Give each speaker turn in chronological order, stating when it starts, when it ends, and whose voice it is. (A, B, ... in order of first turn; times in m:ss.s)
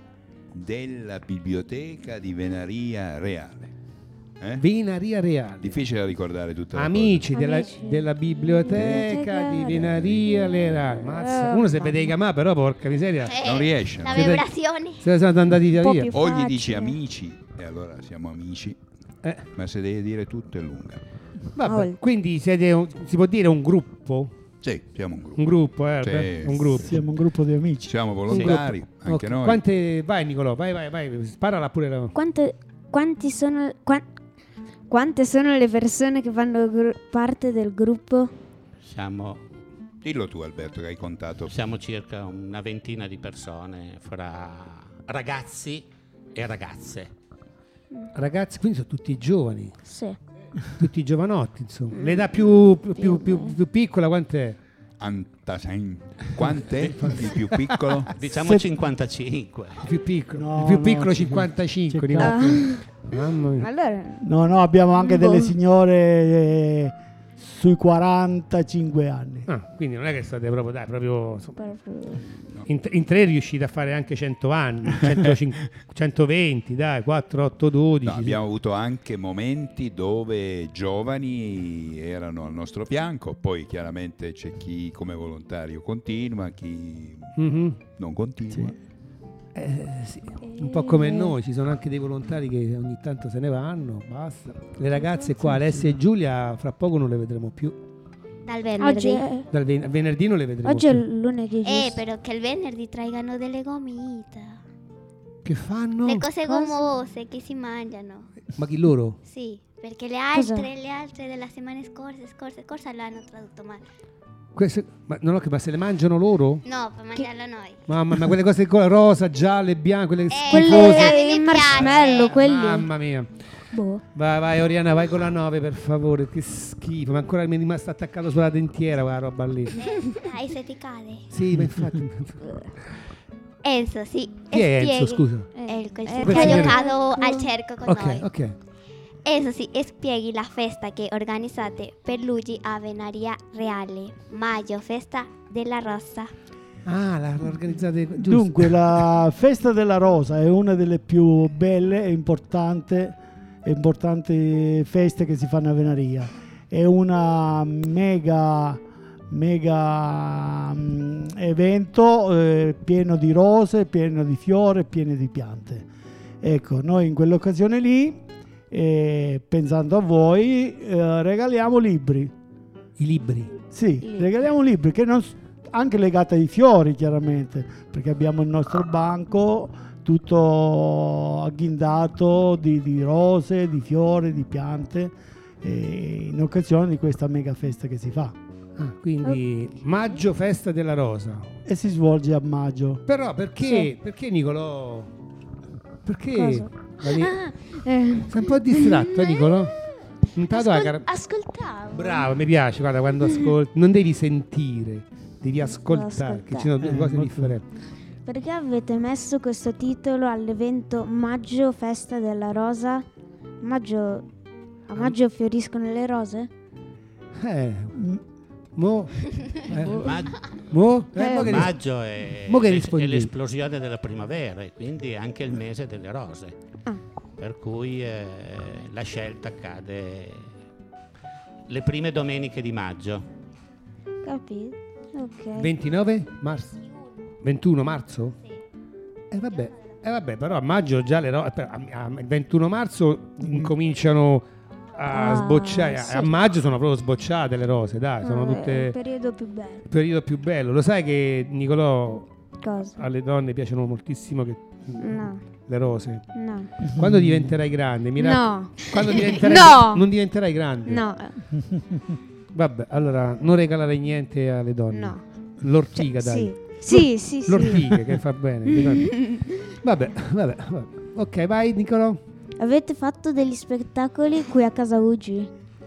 0:00.5-0:03.7 A
0:04.6-0:05.8 B
0:05.6-0:07.3 A
0:06.7-0:13.4 B
0:07.3-0:12.1 C
0:08.7-0:09.0 A
0:09.8-0:10.2 A
0:13.2-0:15.1 D
0:13.4-0:14.3 A
0:14.0-0:14.5 B
0:15.0-0:16.1 B
0:15.8-0:17.0 C
0:16.1-0:18.8 A
0:19.5-0:21.0 A
0:21.6-0:24.3 B
0:21.6-0:22.0 C
0:24.6-0:27.0 A
0:25.4-0:27.0 B
0:26.8-0:28.1 E
0:27.8-0:29.6 A
0:28.3-0:32.1 B
0:32.1-0:34.0 C
0:34.9-0:38.3 C
0:38.8-0:39.4 F
0:40.0-0:41.5 A
0:41.5-0:47.1 F
0:48.1-0:49.8 B
0:49.8-0:50.2 C
0:50.8-0:54.6 B
0:51.9-0:52.3 C
0:52.9-0:53.6 C
0:55.0-0:58.1 A
0:56.5-0:58.1 B
0:58.1-0:59.9 F
0:58.3-0:58.6 E
0:59.8-1:03.7 B
1:00.4-1:02.6 E
1:02.2-1:02.9 C
1:03.6-1:04.2 C
1:04.2-1:09.5 E
1:05.0-1:05.5 C
1:09.5-1:11.6 B
1:11.6-1:12.5 C
1:12.7-1:18.4 B
1:18.0-1:27.3 A
1:27.4-1:27.8 B
1:27.9-1:28.8 A
1:29.5-1:37.8 B
1:30.4-1:31.3 C
1:35.0-1:35.3 C
1:38.4-1:39.3 D
1:38.8-1:39.5 C
1:39.5-1:41.0 B
1:40.6-1:42.0 C
1:41.6-1:44.6 D
1:45.4-1:46.2 B
1:46.0-1:48.3 D
1:46.4-1:46.9 C
1:48.5-1:49.2 B
1:49.2-1:53.8 D
1:50.3-1:50.7 C
1:54.5-1:56.6 B
1:56.6-1:57.8 D
1:57.9-2:01.2 B
2:00.3-2:02.4 D
2:00.5-2:02.9 C
2:01.7-2:03.3 B
2:03.7-2:04.0 C
2:04.1-2:09.7 B
2:09.8-2:11.3 D
2:11.3-2:12.4 B
2:12.4-2:12.7 C
2:13.6-2:18.3 D
2:14.5-2:15.5 B
2:15.5-2:17.5 C
2:16.2-2:16.8 B
2:17.8-2:18.5 B
2:19.2-2:26.3 D
2:26.8-2:28.8 B
2:28.2-2:45.9 E
2:46.4-2:52.3 E
2:53.0-2:53.5 B
2:53.7-3:08.4 E
2:54.0-2:54.3 C
3:08.8-3:11.5 B
3:11.6-3:13.0 E
3:13.1-3:15.1 B
3:13.6-3:13.9 C
3:16.0-3:17.4 B
3:16.3-3:19.6 C
3:18.3-3:19.8 B
3:20.3-3:21.1 B
3:20.5-3:22.3 C
3:21.9-3:27.6 B
3:25.6-3:26.7 C
3:26.8-3:27.6 E
3:28.2-3:33.0 C
3:33.6-3:34.2 C
3:34.9-3:36.5 C
3:37.4-3:38.2 B
3:38.8-3:41.8 B
3:39.9-3:40.5 F
3:41.2-3:41.7 C
3:41.2-3:46.5 F
3:42.4-3:43.3 B
3:47.4-3:50.5 F
3:51.7-3:53.2 F
3:54.2-3:55.7 C
3:55.6-3:56.8 B
3:57.4-3:58.4 B
3:59.3-4:09.0 B
4:05.1-4:06.3 C
4:08.2-4:09.9 C
4:09.9-4:12.3 B
4:12.6-4:13.0 C
4:13.0-4:16.3 B
4:15.0-4:15.4 C
4:16.3-4:16.7 C
4:16.8-4:17.6 E
4:16.9-4:21.0 B
4:18.2-4:20.0 C
4:20.8-4:21.4 C
4:21.6-4:22.1 E
4:22.5-4:32.2 B
4:24.9-4:25.2 C
4:25.9-4:28.1 C
4:28.8-4:29.4 C
4:32.6-4:35.5 C